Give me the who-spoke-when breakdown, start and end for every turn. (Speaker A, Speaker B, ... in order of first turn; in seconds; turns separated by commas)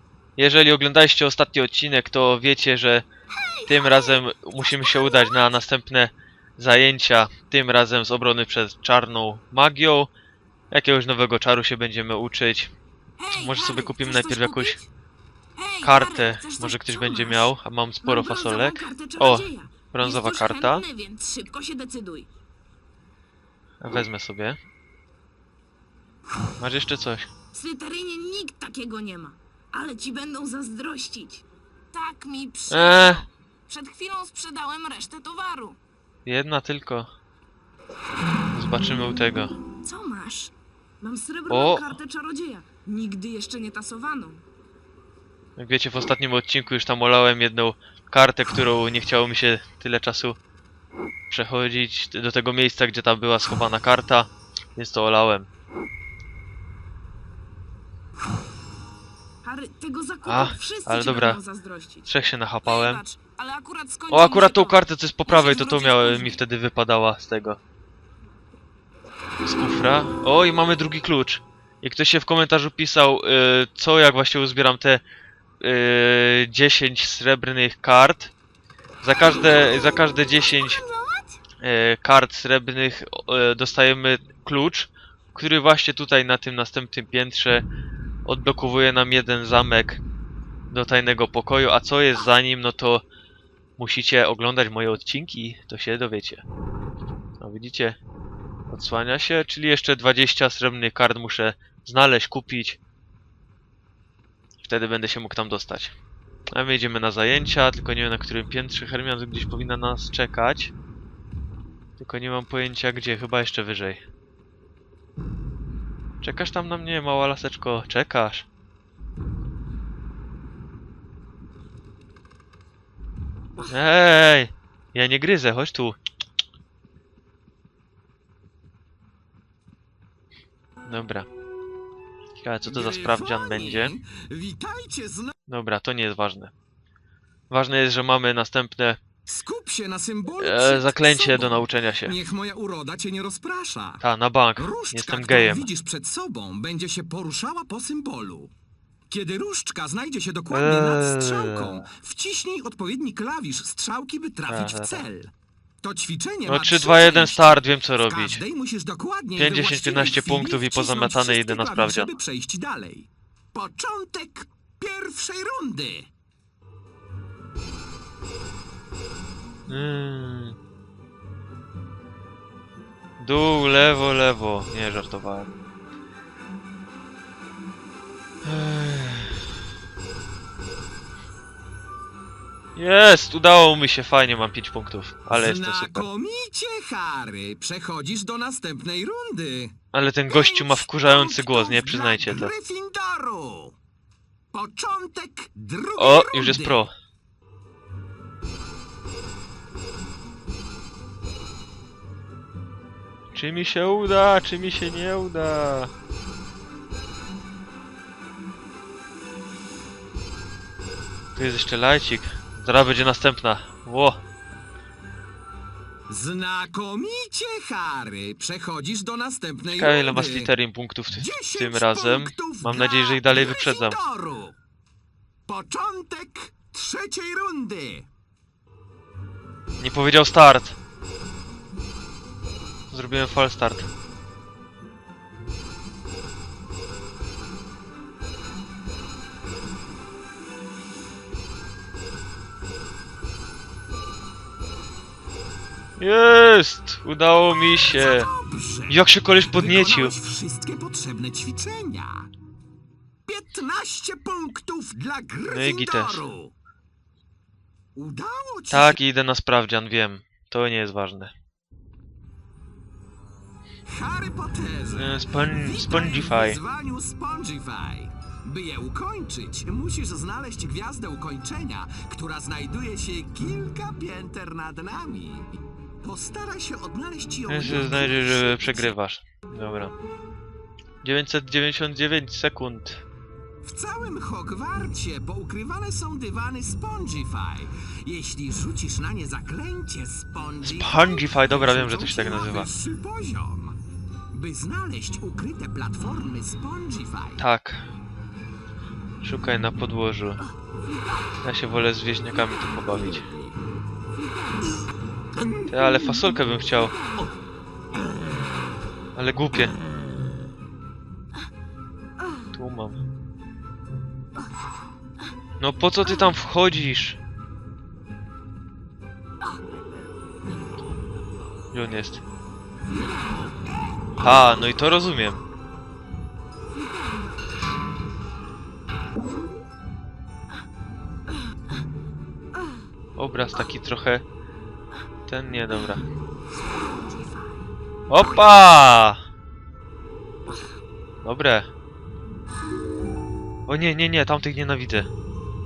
Speaker A: 0.4-3.1, Speaker B: 3.4-5.3, Speaker A: 3.7-10.1, Speaker A: 10.7-12.7, Speaker B: 13.2-14.9, Speaker A: 13.3-14.8, Speaker B: 15.6-17.5, Speaker A: 15.8-20.9, Speaker B: 18.0-22.3, Speaker A: 23.8-24.6, Speaker A: 26.6-27.3, Speaker B: 27.5-35.8, Speaker A: 32.7-33.2, Speaker A: 36.3-37.1, Speaker A: 38.5-39.5, Speaker B: 39.9-44.4, Speaker A: 41.5-42.0, Speaker A: 45.6-50.4, Speaker A: 51.3-55.5, Speaker B: 59.4-62.1, Speaker A: 60.2-61.4, Speaker A: 62.1-63.0, Speaker B: 62.6-66.4, Speaker A: 64.1-67.6, Speaker A: 69.5-75.0, Speaker A: 75.6-78.3, Speaker A: 79.0-80.8, Speaker B: 80.8-81.4, Speaker A: 81.6-87.7, Speaker A: 88.2-90.0, Speaker A: 90.7-93.0, Speaker A: 93.8-96.4, Speaker A: 97.4-98.0, Speaker A: 98.7-102.8, Speaker A: 104.6-105.9, Speaker A: 106.5-110.7, Speaker A: 112.0-114.0, Speaker A: 116.2-118.5, Speaker A: 123.7-126.0, Speaker A: 130.9-131.3, Speaker A: 132.4-133.9, Speaker C: 132.6-135.3, Speaker A: 135.5-136.5, Speaker A: 137.5-139.0, Speaker C: 139.3-144.0, Speaker A: 140.4-142.2, Speaker A: 144.0-145.7, Speaker C: 144.6-148.5, Speaker C: 149.1-166.1, Speaker A: 150.5-151.8, Speaker A: 154.5-155.1, Speaker A: 156.5-158.4, Speaker A: 159.4-162.1, Speaker A: 169.7-170.6, Speaker A: 173.2-175.5, Speaker A: 178.4-179.4, Speaker A: 182.8-186.1, Speaker C: 185.3-189.7, Speaker A: 189.9-192.5, Speaker C: 190.3-193.8, Speaker C: 194.5-196.8, Speaker A: 196.0-196.9, Speaker A: 203.3-205.9, Speaker A: 211.3-214.2, Speaker C: 216.1-220.5, Speaker A: 219.7-224.0, Speaker C: 221.1-224.6, Speaker C: 225.5-228.1, Speaker A: 229.8-230.8, Speaker A: 232.9-233.9, Speaker A: 246.0-248.3, Speaker C: 247.9-252.3, Speaker A: 248.9-250.2, Speaker C: 253.3-256.5, Speaker A: 255.5-256.3, Speaker C: 257.9-259.0, Speaker A: 258.7-261.3, Speaker C: 263.9-278.9, Speaker A: 264.9-266.6, Speaker A: 277.5-279.9, Speaker A: 281.0-283.0, Speaker C: 283.6-293.8, Speaker A: 290.6-292.7, Speaker C: 294.3-297.4, Speaker A: 297.4-297.9, Speaker A: 299.2-300.4, Speaker A: 301.4-303.3, Speaker A: 305.7-307.0, Speaker A: 309.2-309.8, Speaker A: 312.5-313.0, Speaker A: 315.6-317.2, Speaker A: 321.7-322.2, Speaker A: 324.2-325.4, Speaker A: 333.2-334.2, Speaker A: 335.3-336.1, Speaker A: 338.1-339.2, Speaker A: 341.2-341.7, Speaker A: 343.7-345.1